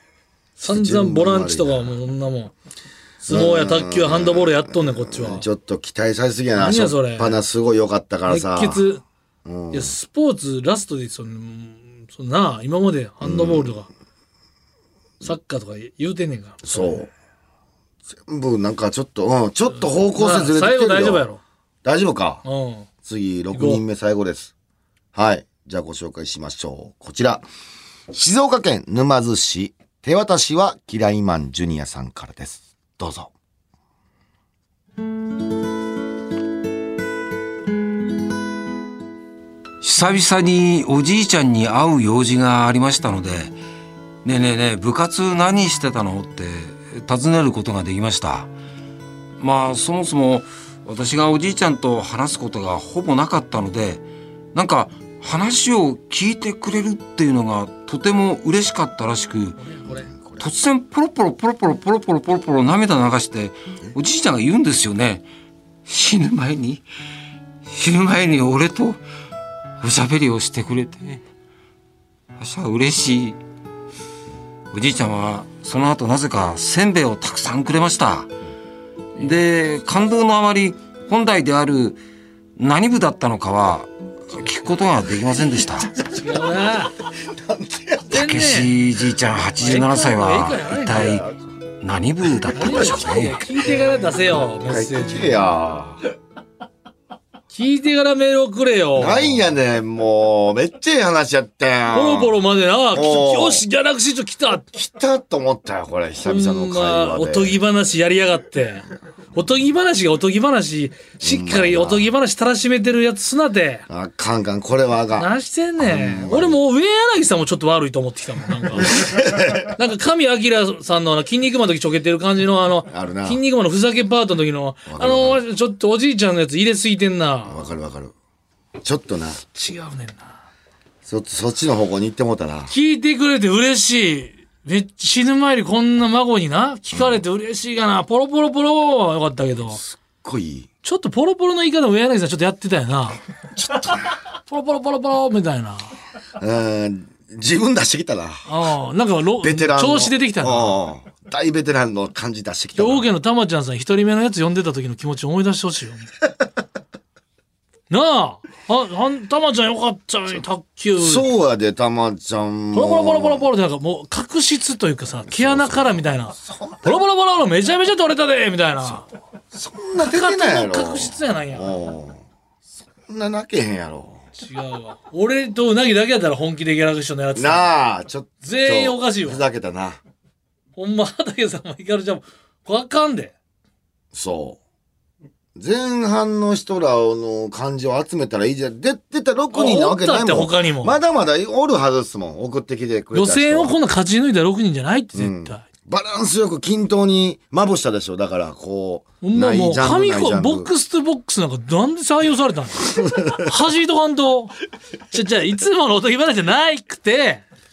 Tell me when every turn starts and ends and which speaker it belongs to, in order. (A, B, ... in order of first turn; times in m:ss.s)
0:00.6-0:02.5 A
0:00.6-0:02.0 B
0:03.2-0:05.4 A
0:03.3-0:08.8 B
0:06.6-0:07.4 A
0:08.3-0:09.0 A
0:09.4-0:09.9 B
0:09.7-0:13.9 A
0:13.2-0:13.7 B
0:15.2-0:17.0 A
0:16.6-0:17.1 B
0:18.1-0:21.2 B
0:19.8-0:21.4 A
0:21.8-0:22.4 B
0:22.4-0:22.9 A
0:23.0-0:24.5 B
0:23.5-0:23.8 A
0:25.1-0:27.4 B
0:28.1-0:33.3 B
0:39.8-0:43.5 C
0:44.2-0:48.5 C
0:49.4-0:54.0 C
0:54.5-0:59.6 C
0:59.6-1:00.1 A
0:59.8-1:00.5 B
1:00.4-1:05.2 C
1:05.8-1:06.8 C
1:07.6-1:09.0 C
1:09.8-1:11.2 C
1:12.4-1:13.4 C
1:14.7-1:18.3 C
1:19.2-1:22.0 C
1:22.6-1:25.9 C
1:26.1-1:26.9 A
1:27.1-1:28.2 B
1:28.1-1:28.7 A
1:28.1-1:31.2 C
1:29.6-1:31.2 A
1:31.0-1:31.3 B
1:31.8-1:33.4 C
1:32.5-1:35.4 A
1:34.6-1:36.0 B
1:37.5-1:39.4 A
1:39.0-1:42.3 B
1:41.9-1:44.7 A
1:42.9-1:43.6 B
1:44.7-1:47.6 B
1:46.2-1:53.8 A
1:51.2-1:52.1 B
1:53.9-1:56.6 B
1:55.1-2:07.6 A
1:58.7-1:59.7 B
2:02.9-2:03.4 B
2:04.9-2:05.4 B
2:07.4-2:08.1 B
2:08.8-2:09.4 B
2:09.5-2:10.4 A
2:11.0-2:12.7 B
2:12.7-2:19.8 A
2:19.7-2:20.7 B
2:20.8-2:23.2 A
2:23.7-2:23.9 B
2:24.4-2:25.9 A
2:26.4-2:28.4 B
2:28.4-2:30.8 A
2:29.4-2:33.1 B
2:32.8-2:36.1 A
2:37.9-2:41.3 A
2:41.0-2:43.4 B
2:42.7-2:49.1 A
2:45.3-2:47.0 B
2:49.5-2:52.2 B
2:50.0-2:51.8 A
2:53.0-2:54.2 B
2:54.3-2:57.7 A
2:57.3-3:00.0 B
2:58.4-2:59.4 A
3:00.8-3:03.3 A
3:04.1-3:04.6 B
3:05.6-3:13.8 B
3:09.5-3:11.0 A
3:13.1-3:15.6 A
3:15.1-3:20.7 B
3:19.2-3:24.5 A
3:25.1-3:27.4 A